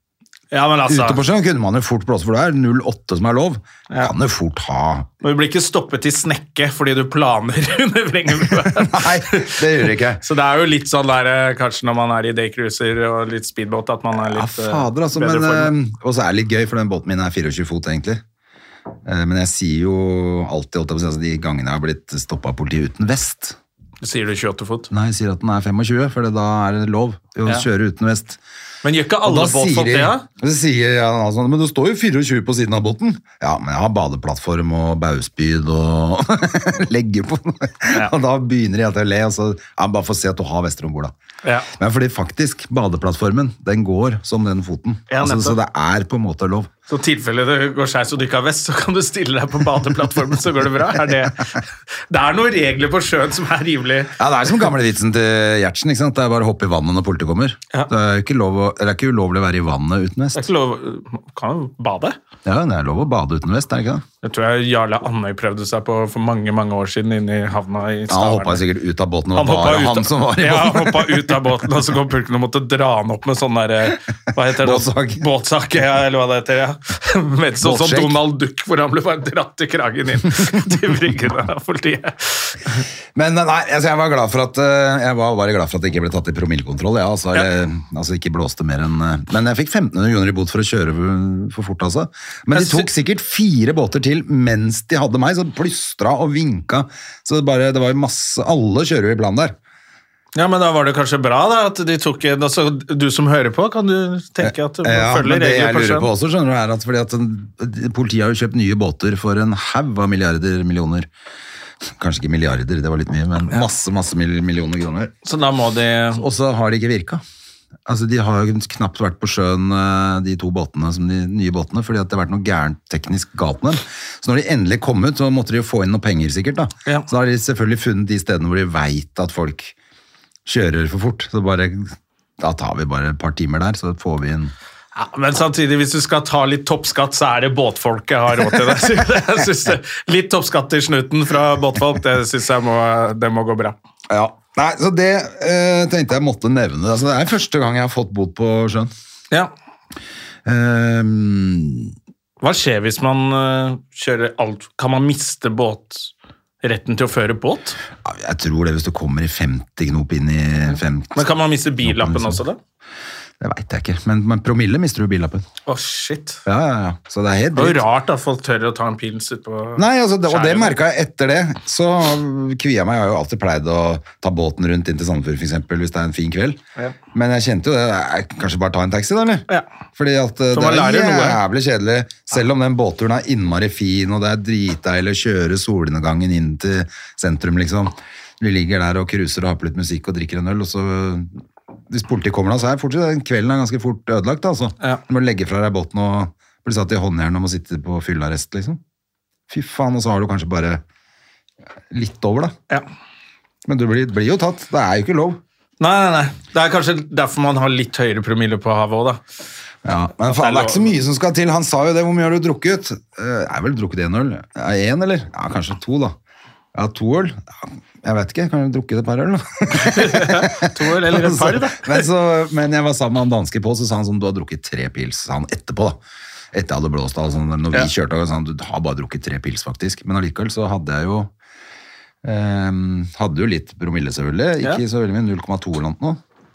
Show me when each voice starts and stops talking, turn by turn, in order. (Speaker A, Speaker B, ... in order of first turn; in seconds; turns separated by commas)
Speaker A: 0.5-1.2, Speaker B: 0.9-5.1, Speaker A: 5.2-15.7, Speaker B: 8.5-10.2, Speaker B: 14.2-18.2, Speaker B: 19.1-23.6, Speaker A: 24.0-24.9, Speaker B: 24.9-28.4, Speaker A: 28.8-30.2, Speaker B: 29.2-41.1, Speaker A: 41.4-41.7, Speaker B: 41.8-46.7, Speaker A: 45.1-45.6, Speaker A: 46.9-54.1, Speaker B: 54.2-60.5, Speaker A: 60.4-62.2, Speaker B: 62.5-64.0, Speaker A: 64.2-68.6, Speaker B: 68.1-71.4, Speaker A: 69.3-82.8, Speaker B: 74.5-75.2, Speaker B: 77.6-78.2, Speaker B: 83.1-99.6, Speaker A: 92.5-92.9, Speaker A: 100.3-106.1, Speaker B: 104.4-111.1, Speaker B: 112.0-115.1, Speaker A: 115.2-116.2, Speaker B: 116.2-117.2, Speaker B: 117.9-129.8, Speaker B: 130.5-134.5, Speaker A: 134.9-143.8, Speaker B: 144.1-148.9, Speaker B: 150.4-151.9, Speaker A: 152.4-157.8, Speaker B: 158.0-162.4, Speaker A: 161.2-162.6, Speaker B: 163.4-165.5, Speaker A: 165.7-166.4, Speaker B: 166.5-167.8, Speaker A: 167.6-170.8, Speaker B: 169.8-176.6, Speaker B: 177.1-179.4, Speaker B: 180.0-198.8, Speaker A: 180.5-181.4, Speaker B: 199.5-200.8, Speaker B: 201.9-202.5, Speaker B: 203.7-205.4, Speaker A: 205.8-209.2, Speaker B: 209.8-216.2, Speaker A: 210.2-211.0, Speaker B: 216.7-226.0, Speaker A: 219.7-222.1, Speaker B: 226.5-231.3, Speaker B: 232.2-236.2